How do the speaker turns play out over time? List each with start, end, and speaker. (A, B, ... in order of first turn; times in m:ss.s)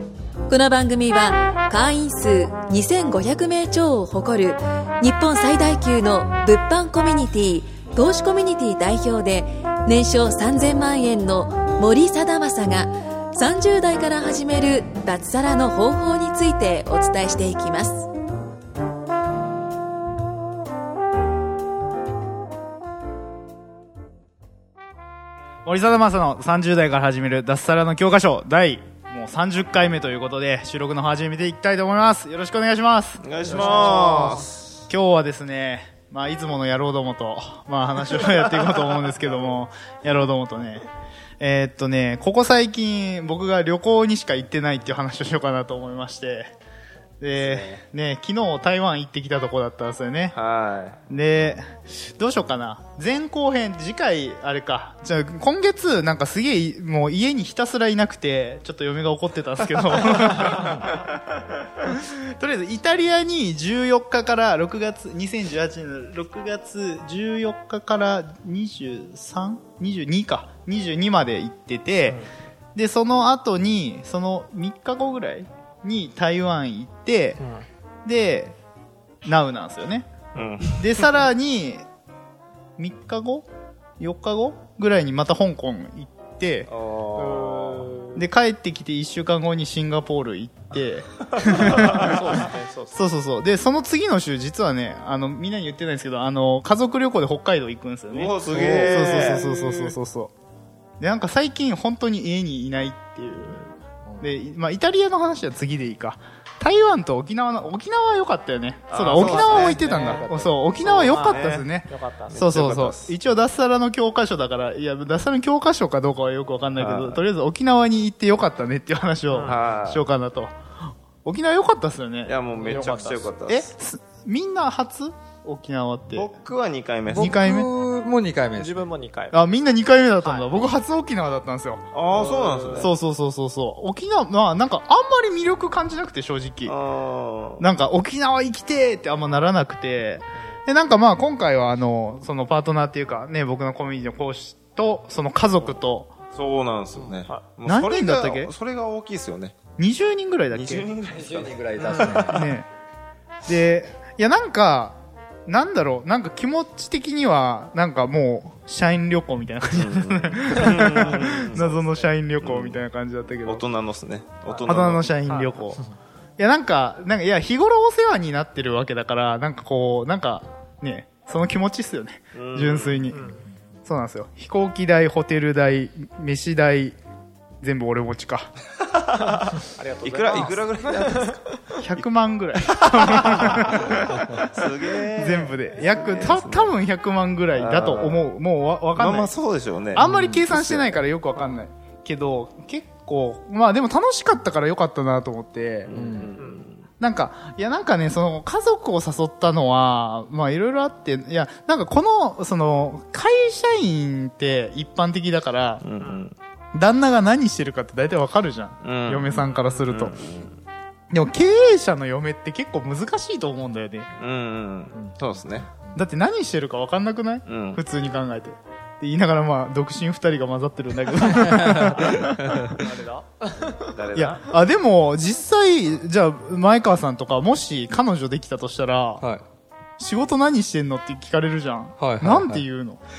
0:00.5-0:18.0 A
0:25.6-0:40.9 B
0:33.2-0:34.6 C
0:33.5-0:34.4 D
0:41.4-0:46.5 B
0:47.2-0:50.3 B
0:47.4-0:47.8 C
0:50.3-0:51.0 C
0:51.1-1:01.1 B
1:01.8-1:12.2 B
1:12.8-1:17.4 B
1:18.0-1:18.6 B
1:19.2-1:20.1 B
1:20.4-1:21.1 C
1:20.4-1:20.7 D
1:20.8-1:21.8 B
1:22.8-1:23.5 B
1:24.0-1:26.7 B
1:26.7-1:27.9 C
1:27.2-1:28.2 D
1:28.1-1:40.3 B
1:31.4-1:32.2 C
1:31.4-1:33.0 D
1:38.1-1:39.5 C
1:38.6-1:40.0 D
1:41.0-1:43.6 B
1:44.1-1:44.3 E
1:44.2-2:00.5 B
1:48.9-1:50.2 C
1:49.0-1:52.5 D
1:50.8-1:51.7 C
1:52.3-1:53.1 C
1:56.8-1:57.2 C
1:59.3-1:59.6 D
1:59.5-2:00.0 C
2:01.2-2:02.4 B
2:02.3-2:03.7 C
2:02.6-2:03.1 E
2:02.7-2:03.3 D
2:03.5-2:06.3 B
2:06.1-2:07.4 C
2:07.1-2:08.9 E
2:07.1-2:07.7 B
2:08.6-2:09.4 D
2:09.3-2:11.8 B
2:10.2-2:10.6 D
2:11.9-2:12.9 C
2:12.1-2:12.9 D
2:12.8-2:16.7 B
2:16.6-2:17.6 C
2:17.6-2:26.1 B
2:26.3-2:29.6 C
2:26.9-2:27.2 E
2:27.6-2:28.5 B
2:29.8-2:30.9 B
2:30.5-2:32.5 C
2:31.1-2:32.4 E
2:32.1-2:32.7 B
2:33.4-2:43.6 B
2:39.7-2:41.8 C
2:40.6-2:42.0 D
2:42.4-2:42.8 C
2:43.4-2:45.1 C
2:44.4-2:45.5 D
2:44.7-2:45.8 B
2:46.4-2:53.2 B
2:52.3-2:53.1 C
2:53.1-2:53.4 D
2:53.8-2:57.0 B
2:57.6-2:58.5 B
2:59.0-3:06.8 C
2:59.3-3:01.3 D
3:01.8-3:04.0 B
3:05.1-3:09.3 B
3:07.5-3:08.2 C
3:08.9-3:11.0 C
3:09.9-3:15.9 B
3:10.0-3:10.4 E
3:11.4-3:11.6 D
3:15.9-3:16.8 C
3:15.9-3:16.3 E
3:16.3-3:16.6 D
3:17.0-3:25.8 B
3:25.8-3:26.3 C
3:26.0-3:26.2 D
3:26.7-3:30.2 B
3:28.8-3:30.6 C
3:31.1-3:34.1 B
3:34.2-3:35.7 C
3:34.9-3:36.0 E
3:35.9-3:42.6 B
3:37.4-3:37.8 C
3:41.7-3:42.7 E
3:42.7-3:43.9 D
3:43.9-3:44.4 C
3:44.1-3:49.2 B
3:50.0-3:53.0 B
3:52.0-3:52.7 E